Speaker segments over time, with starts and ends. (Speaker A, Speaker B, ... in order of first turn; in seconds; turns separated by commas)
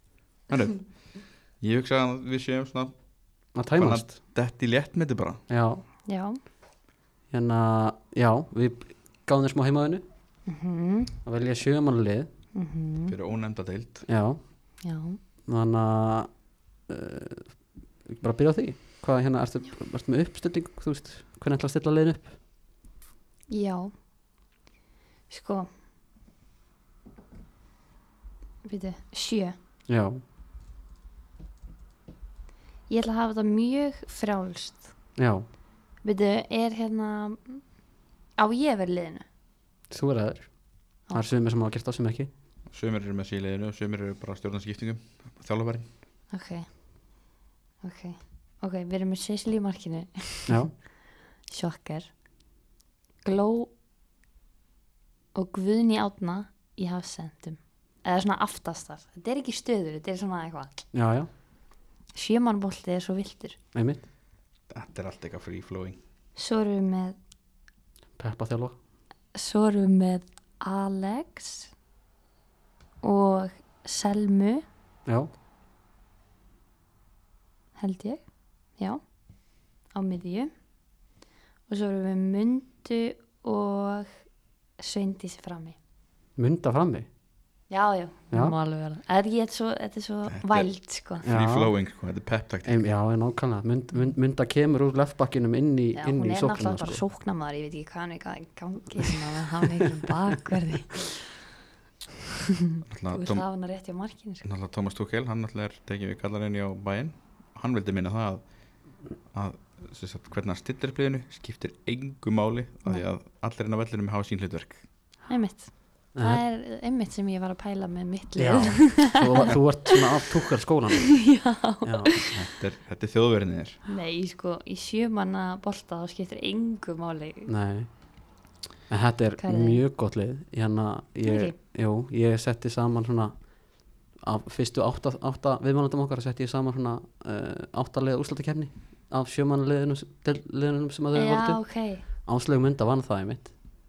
Speaker A: 0.5-5.4, Speaker B: 3.5-4.1, Speaker B: 5.5-5.8, Speaker C: 6.0-6.4, Speaker B: 7.3-10.0, Speaker C: 10.5-11.1, Speaker B: 11.2-12.3, Speaker C: 12.5-13.1, Speaker A: 13.1-14.1, Speaker B: 14.1-14.4, Speaker C: 14.8-15.2, Speaker B: 15.5-22.4, Speaker C: 23.5-23.9, Speaker C: 25.3-25.7, Speaker C: 28.6-29.6, Speaker B: 29.9-30.2, Speaker C: 32.9-34.9, Speaker B: 35.2-35.5, Speaker C: 36.0-37.6, Speaker C: 38.4-39.2, Speaker B: 39.9-42.3, Speaker A: 42.7-45.9, Speaker C: 46.3-46.7, Speaker C: 47.8-50.8, Speaker B: 50.5-50.7, Speaker C: 51.4-52.1, Speaker C: 53.2-53.7, Speaker C: 55.3-60.8, Speaker B: 60.9-61.3, Speaker C: 62.1-63.6, Speaker B: 63.7-64.0, Speaker A: 64.7-66.0, Speaker C: 66.3-67.2, Speaker B: 68.2-68.8, Speaker C: 69.3-71.7, Speaker C: 73.0-74.7, Speaker C: 77.8-78.2, Speaker C: 78.8-79.0, Speaker C: 79.9-80.5, Speaker C: 81.7-84.1, Speaker C: 84.8-85.8, Speaker B: 86.4-87.1, Speaker C: 87.7-91.2, Speaker B: 88.3-88.6, Speaker A: 90.3-92.9, Speaker B: 91.2-91.7, Speaker B: 92.7-97.0, Speaker C: 96.0-101.2, Speaker A: 102.9-103.5, Speaker C: 103.1-104.5, Speaker A: 104.4-114.8, Speaker C: 115.3-120.1, Speaker B: 116.2-116.4, Speaker B: 118.4-122.1, Speaker C: 121.2-122.3, Speaker A: 122.3-123.8, Speaker C: 123.9-127.5, Speaker B: 127.5-128.0, Speaker B: 128.9-143.5, Speaker C: 129.4-129.8, Speaker C: 131.2-131.6, Speaker C: 141.1-142.0